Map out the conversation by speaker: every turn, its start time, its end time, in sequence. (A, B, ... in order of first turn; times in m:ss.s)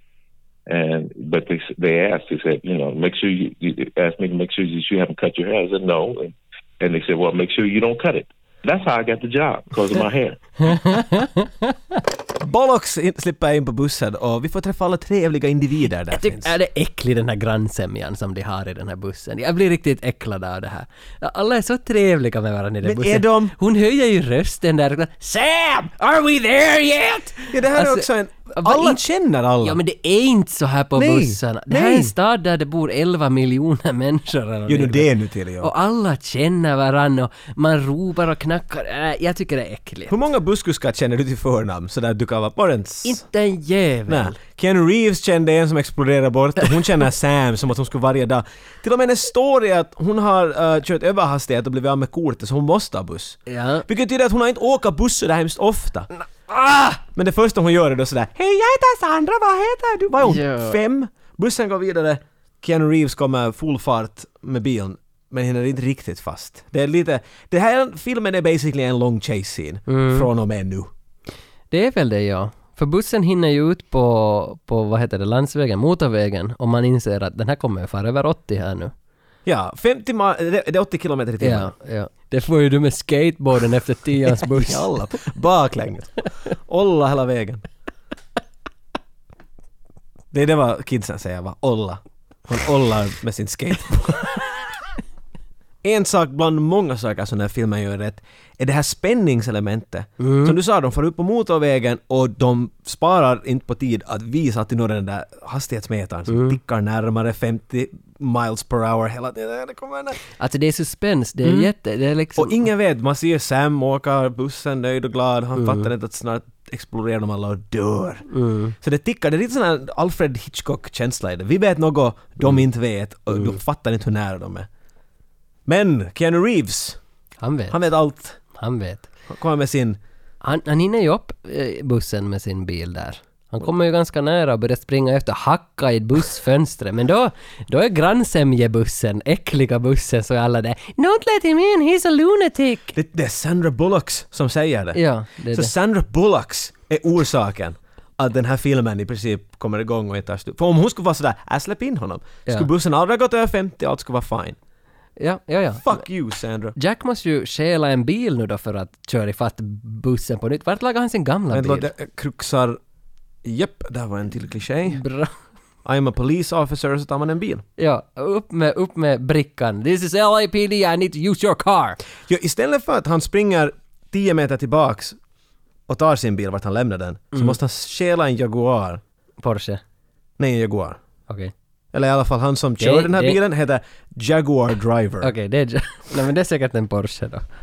0:00.7-0:10.7 A
0:10.6-0:11.7 B
0:12.4-0:16.5 C
0:16.1-0:29.0 B
0:22.8-0:23.5 C
0:27.5-0:29.8 C
0:29.6-0:40.1 B
0:31.0-0:32.1 C
0:34.7-0:35.7 C
0:40.1-0:43.2 C
0:43.0-0:44.4 B
0:44.1-0:56.1 C
0:53.5-0:53.9 B
0:56.5-0:57.0 B
0:57.1-1:10.9 C
1:00.2-1:00.8 B
1:09.9-1:10.3 B
1:11.7-1:18.9 B
1:19.5-1:21.7 C
1:21.4-1:24.9 B
1:24.3-1:27.6 C
1:30.3-1:34.4 C
1:35.8-1:50.2 C
1:40.2-1:40.6 B
1:46.3-1:46.6 B
1:50.4-1:52.6 B
1:51.4-1:51.7 C
1:52.4-1:58.2 C
1:55.6-1:55.9 B
1:58.3-1:58.8 B
1:58.8-2:04.7 C
2:03.3-2:03.6 B
2:05.7-2:07.0 C
2:07.4-2:07.9 B
2:07.7-2:08.4 C
2:08.5-2:09.1 B
2:09.3-2:10.0 C
2:10.4-2:23.0 B
2:23.0-2:25.0 C
2:24.9-2:25.7 B
2:25.5-2:34.6 C
2:35.2-2:36.0 B
2:35.8-2:36.8 C
2:36.8-2:41.9 B
2:41.5-2:42.8 C
2:43.4-2:45.0 C
2:44.9-2:45.3 B
2:45.8-2:47.6 C
2:47.8-2:52.0 B
2:52.3-2:55.2 C
2:55.9-2:59.0 C
2:59.4-2:59.8 B
3:00.4-3:01.0 C
3:01.3-3:01.5 B
3:01.9-3:05.3 C
3:02.8-3:03.4 B
3:05.2-3:07.5 B